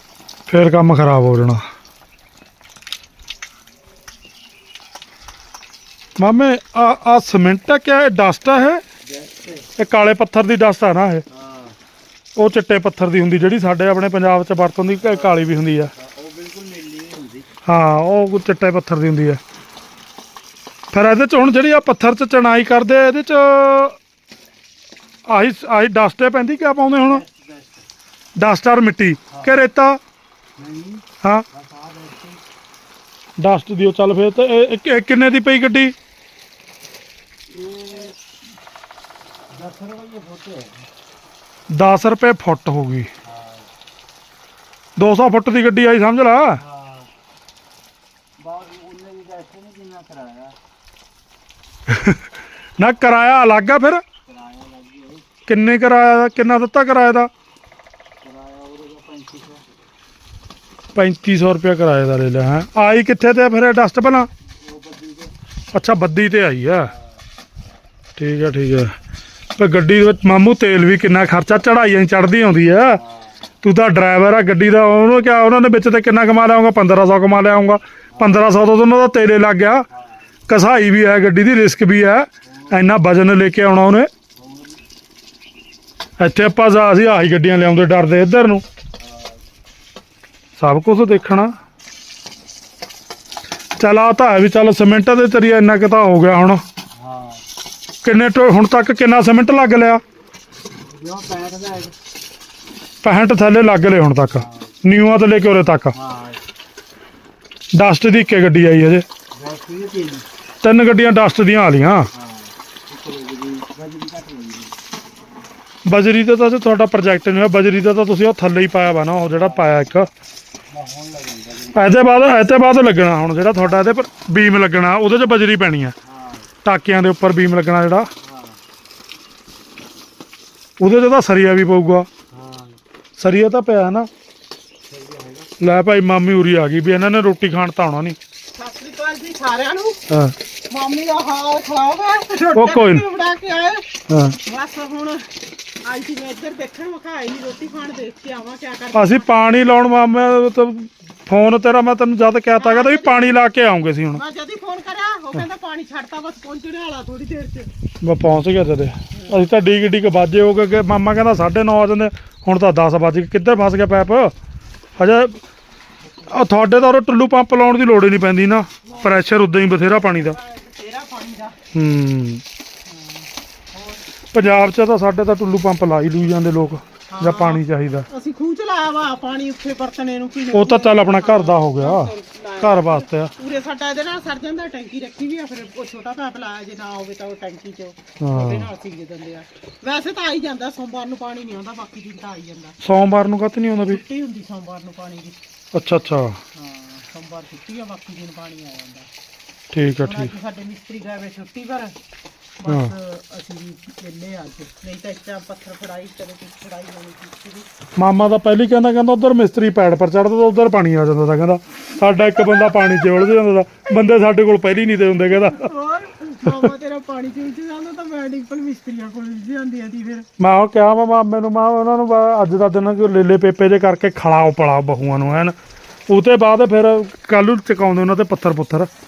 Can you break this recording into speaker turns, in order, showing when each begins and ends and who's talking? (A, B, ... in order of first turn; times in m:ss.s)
0:00.5-0:01.6 A
0:06.2-0:08.8 A
0:09.0-0:09.7 B
0:09.8-0:11.2 A
0:11.3-0:11.8 B
0:12.4-0:15.9 A
0:15.0-0:17.6 B
0:17.7-0:19.4 A
0:20.9-0:24.0 A
0:25.3-0:27.2 A
0:27.0-0:27.8 B
0:28.4-0:30.0 A
0:29.3-0:29.6 B
0:30.6-0:32.4 B
0:33.4-0:36.0 A
0:37.5-0:38.2 B
0:39.5-0:40.8 B
0:41.7-0:43.1 A
0:43.2-0:43.7 B
0:45.0-0:46.6 A
0:46.6-0:47.1 B
0:48.4-0:50.6 B
0:51.9-0:54.0 A
0:54.3-0:55.3 B
0:55.5-0:57.3 A
0:58.2-0:59.6 B
1:01.0-1:04.3 A
1:04.6-1:05.4 B
1:05.7-1:06.9 A
1:06.9-1:07.2 B
1:08.2-1:09.0 A
1:09.6-1:13.0 A
1:13.0-1:13.4 B
1:13.6-1:19.9 A
1:18.1-1:18.4 B
1:19.9-1:20.4 B
1:20.5-1:24.1 A
1:22.4-1:22.9 B
1:24.4-1:24.8 B
1:26.2-1:28.6 A
1:29.0-1:29.4 B
1:30.6-1:31.5 A
1:33.8-1:36.6 A
1:37.0-1:37.4 B
1:38.0-1:40.0 A
1:40.9-1:41.9 B
1:43.0-1:46.0 A
1:44.4-1:44.7 B
1:45.9-1:46.4 B
1:47.7-1:49.1 A
1:49.4-1:50.2 B
1:50.6-1:52.1 A
1:52.1-1:54.8 B
1:55.9-2:00.1 A
1:59.3-1:59.9 B
2:00.7-2:02.0 B
2:01.7-2:05.9 A
2:06.0-2:06.5 B
2:06.6-2:08.1 A
2:08.2-2:08.6 B
2:10.8-2:12.1 A
2:12.3-2:12.8 B
2:13.2-2:14.1 A
2:14.9-2:15.5 B
2:15.6-2:18.2 A
2:18.6-2:20.0 C
2:20.1-2:20.4 A
2:20.7-2:23.9 C
2:22.5-2:23.1 A
2:24.1-2:24.4 A
2:24.4-2:29.3 C
2:28.9-2:34.2 A
2:32.6-2:33.4 C
2:34.2-2:37.7 C
2:38.0-2:44.3 A
2:39.1-2:39.4 C
2:45.0-2:45.4 A
2:46.3-2:50.4 A
2:48.9-2:49.3 C
2:49.8-2:51.6 C
2:51.7-2:52.4 A
2:52.9-2:54.0 C
2:54.3-2:58.1 A
2:57.1-3:12.8 C
3:00.5-3:03.3 A
3:08.2-3:08.7 A
3:12.8-3:14.0 A
3:13.8-3:15.4 C
3:15.7-3:16.4 A
3:16.6-3:19.1 C
3:19.7-3:20.3 A
3:20.0-3:22.0 C
3:22.6-3:27.7 C
3:22.6-3:22.9 A
3:28.0-3:35.7 A
3:32.4-3:33.3 C
3:35.5-3:40.3 C
3:36.5-3:36.7 A
3:40.4-3:45.6 A
3:46.1-3:48.9 A